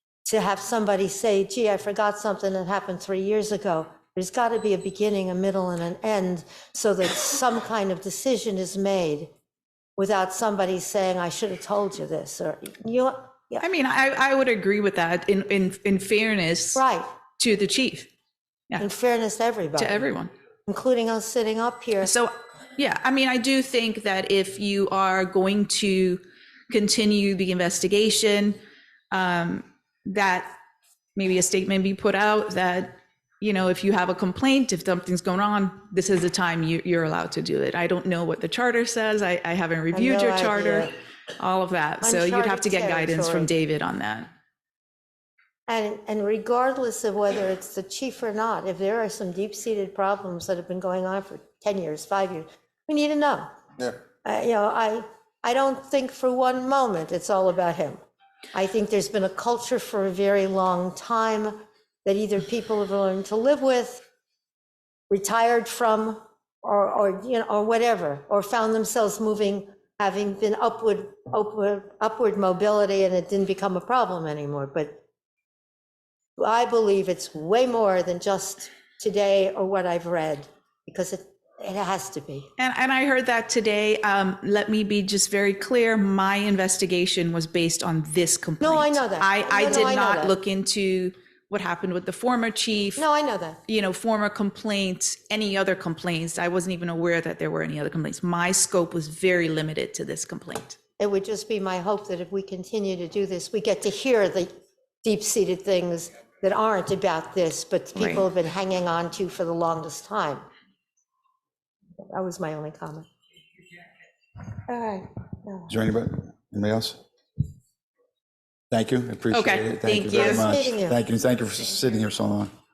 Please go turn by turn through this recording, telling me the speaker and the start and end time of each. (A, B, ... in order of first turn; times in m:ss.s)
0:00.2-0:09.3 A
0:10.0-0:13.6 A
0:13.6-0:16.8 B
0:16.8-0:17.1 A
0:17.4-0:18.1 B
0:18.8-0:20.1 A
0:19.8-0:20.3 B
0:20.7-0:22.1 A
0:22.0-0:28.6 B
0:29.1-0:30.6 B
0:31.2-0:44.3 B
0:39.9-0:40.9 A
0:42.0-0:43.5 A
0:45.7-0:53.5 A
0:54.2-0:58.0 A
0:58.5-1:04.0 A
1:05.1-1:15.0 A
1:16.4-1:22.5 A
1:22.6-1:33.1 B
1:28.6-1:30.4 A
1:33.0-1:33.6 A
1:33.7-1:40.8 B
1:41.0-1:44.5 A
1:45.0-1:50.4 A
1:48.0-1:48.2 B
1:52.1-1:53.1 A
1:54.7-1:55.7 A
1:55.7-1:57.0 C
1:58.7-2:02.5 C
1:59.3-2:00.5 B
2:00.1-2:01.0 A